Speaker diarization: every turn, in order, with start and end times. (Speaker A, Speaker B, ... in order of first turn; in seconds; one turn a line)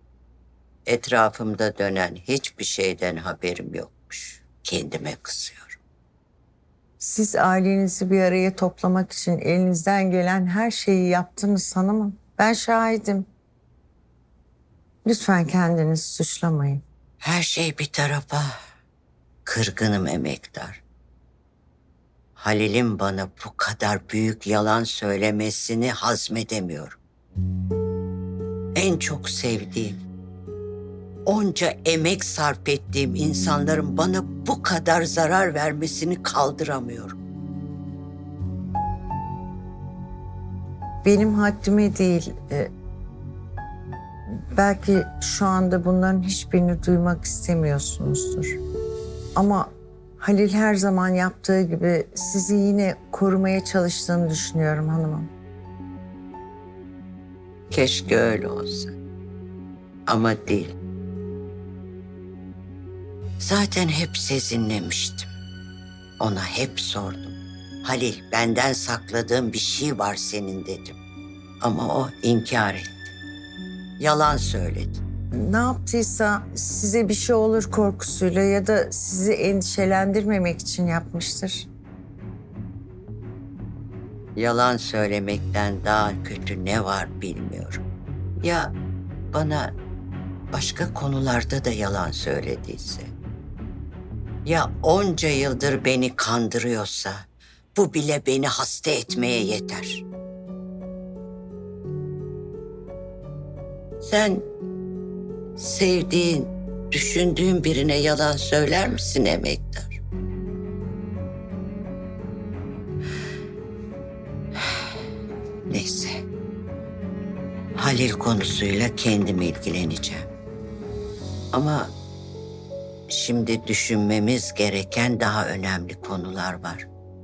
Speaker A: 0.9-5.8
Speaker B: 7.0-13.3
Speaker B: 15.0-16.8
Speaker A: 17.2-18.6
Speaker A: 19.4-20.8
Speaker A: 22.4-27.0
Speaker A: 28.8-30.0
Speaker A: 31.2-37.2
Speaker B: 41.0-42.7
Speaker B: 44.5-48.6
Speaker B: 49.3-55.3
Speaker A: 57.7-59.0
Speaker A: 60.1-60.8
Speaker A: 63.4-65.3
Speaker A: 66.2-71.0
Speaker A: 71.6-73.1
Speaker A: 74.0-75.0
Speaker B: 75.4-81.7
Speaker A: 84.3-87.8
Speaker A: 88.4-88.7
Speaker A: 89.3-89.7
Speaker A: 90.5-93.1
Speaker A: 94.4-97.2
Speaker A: 97.7-100.0
Speaker A: 104.0-104.4
Speaker A: 105.6-110.0
Speaker A: 115.7-116.2
Speaker A: 117.8-120.3
Speaker A: 121.5-121.9
Speaker A: 123.1-126.9